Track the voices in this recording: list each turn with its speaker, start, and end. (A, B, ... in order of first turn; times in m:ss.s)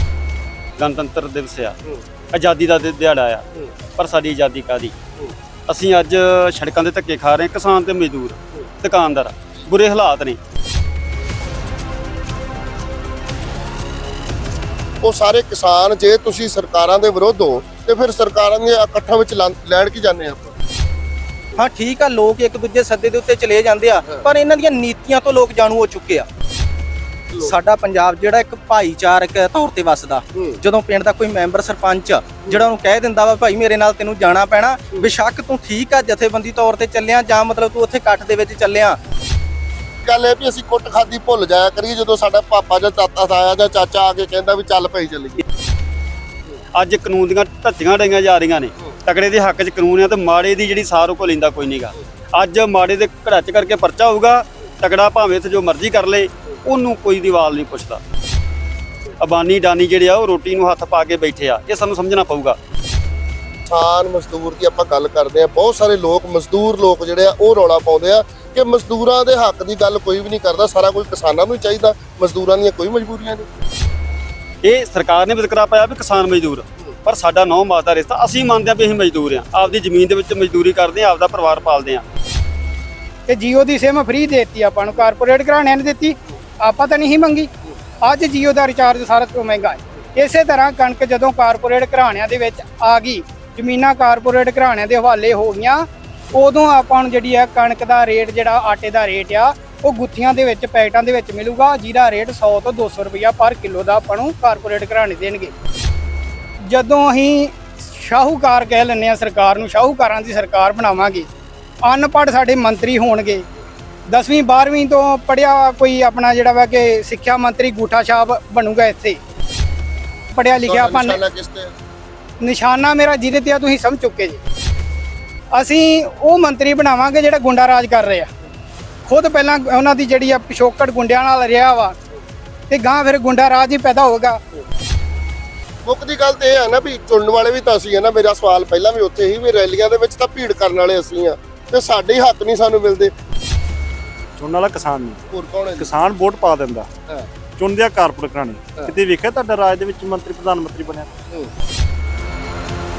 0:00.8-0:01.8 A
0:02.3-0:03.4 A
0:04.0-0:04.9 A
0:05.7-0:10.4 A
0:15.0-0:20.5 B
0:21.5-0:26.3 C
0:27.4-0:39.0 C
0:30.3-0:30.6 B
0:40.0-0:45.4 B
0:46.8-0:58.0 A
0:59.2-1:02.6 A
1:03.7-1:13.5 B
1:14.6-1:22.0 A
1:23.3-1:27.5 D
1:28.0-1:45.5 D
1:46.7-1:51.3 D
1:51.8-1:53.4 D
1:54.1-1:59.2 D
2:00.3-2:01.2 D
2:00.6-2:01.7 B
2:02.4-2:04.4 D
2:05.5-2:08.3 D
2:09.0-2:11.9 D
2:12.7-2:14.4 D
2:15.8-2:23.1 B
2:24.4-2:25.2 E
2:25.3-2:25.9 B
2:25.8-2:26.9 E
2:27.6-2:31.1 E